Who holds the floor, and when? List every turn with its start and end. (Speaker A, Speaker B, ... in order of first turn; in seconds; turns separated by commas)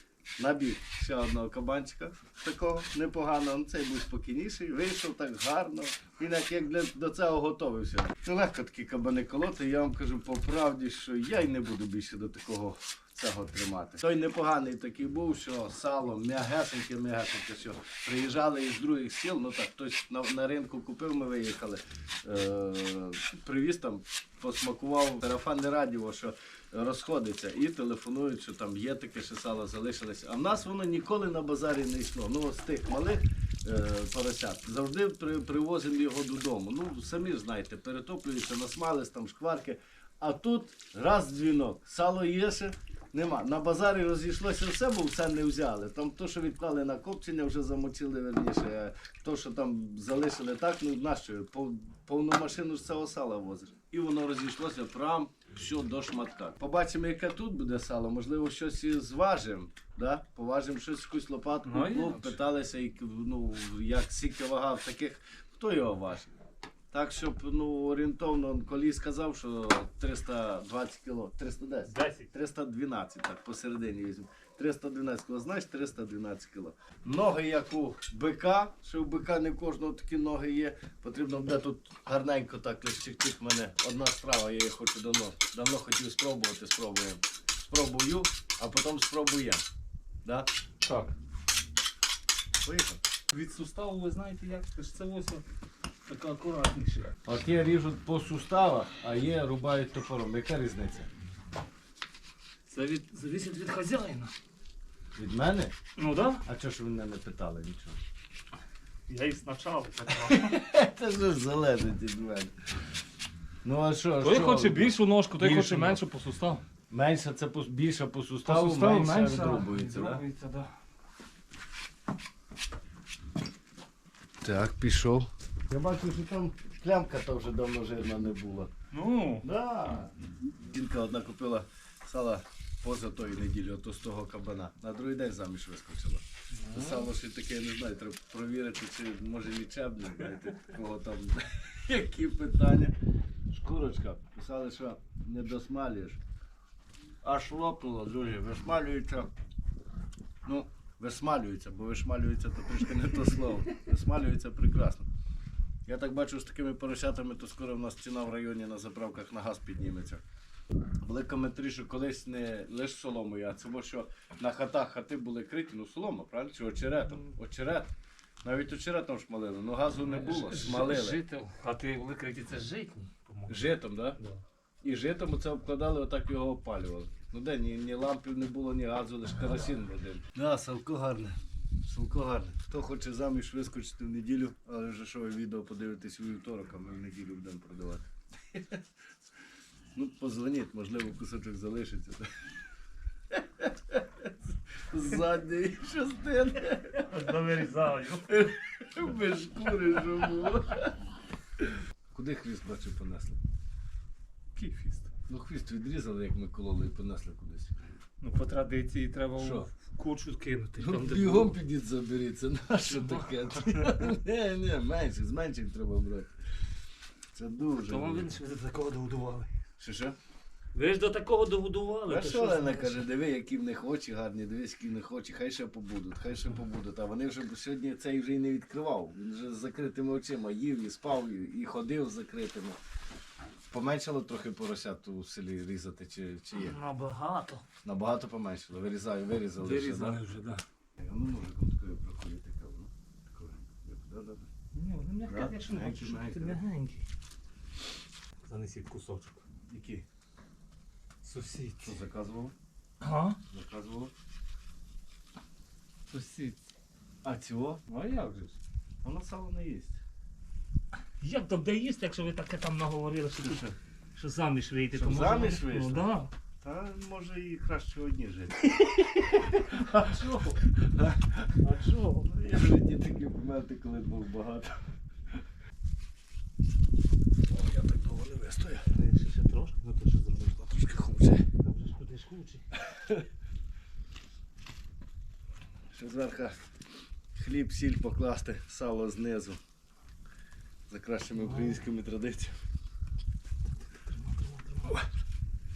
Speaker A: 0.4-66.3, Speaker B: 61.6-62.4, Speaker A: 66.9-89.7, Speaker B: 71.9-72.3, Speaker B: 90.8-91.2, Speaker A: 92.6-93.0, Speaker B: 93.3-95.4, Speaker B: 96.1-97.1, Speaker A: 97.2-101.1, Speaker B: 102.7-104.3, Speaker A: 105.2-105.7, Speaker B: 106.0-106.4, Speaker A: 106.5-108.0, Speaker B: 109.1-110.6, Speaker A: 110.2-112.5, Speaker A: 113.6-116.0, Speaker B: 114.2-116.6, Speaker A: 116.9-120.2, Speaker B: 118.5-120.7, Speaker A: 124.4-128.7, Speaker B: 128.9-129.4, Speaker A: 129.4-130.1, Speaker A: 130.7-142.9, Speaker B: 136.6-137.1, Speaker A: 143.5-146.2, Speaker A: 147.2-149.3, Speaker A: 150.4-155.1, Speaker A: 155.9-160.2, Speaker A: 161.0-167.9, Speaker A: 168.4-171.2, Speaker B: 170.1-174.4, Speaker A: 173.5-174.2, Speaker A: 174.8-188.8, Speaker A: 189.9-192.3, Speaker A: 193.3-194.3, Speaker A: 194.9-197.1, Speaker B: 197.0-198.5, Speaker A: 198.3-200.9, Speaker A: 202.1-203.4, Speaker B: 204.6-205.1, Speaker A: 205.3-207.8, Speaker B: 208.2-211.6, Speaker A: 209.4-209.7, Speaker A: 210.8-216.3, Speaker B: 213.0-214.0, Speaker A: 217.3-218.3, Speaker B: 217.8-219.5, Speaker A: 219.8-220.2, Speaker B: 220.7-223.0, Speaker A: 222.1-232.8, Speaker A: 233.7-236.8, Speaker B: 236.5-237.7, Speaker A: 237.8-240.2, Speaker B: 239.6-240.6, Speaker A: 241.0-244.5, Speaker B: 244.7-247.1, Speaker A: 245.3-246.6, Speaker B: 248.4-249.4, Speaker A: 249.7-250.1, Speaker B: 251.2-252.0, Speaker A: 251.8-252.5, Speaker B: 253.0-253.4, Speaker A: 253.5-254.1, Speaker B: 256.1-256.6, Speaker A: 257.2-257.8, Speaker B: 257.9-258.6, Speaker A: 259.0-260.0, Speaker B: 261.2-266.3, Speaker A: 264.9-266.1, Speaker A: 266.6-268.7, Speaker A: 269.4-270.1, Speaker B: 269.7-270.6, Speaker A: 270.8-271.5, Speaker B: 271.6-272.3, Speaker A: 272.3-274.8, Speaker A: 277.5-278.9, Speaker B: 278.9-280.6, Speaker A: 280.6-281.5, Speaker B: 281.6-282.7, Speaker A: 282.8-283.2, Speaker A: 285.9-286.6, Speaker A: 287.4-289.6, Speaker A: 290.9-292.6, Speaker B: 291.3-291.8, Speaker B: 293.9-295.0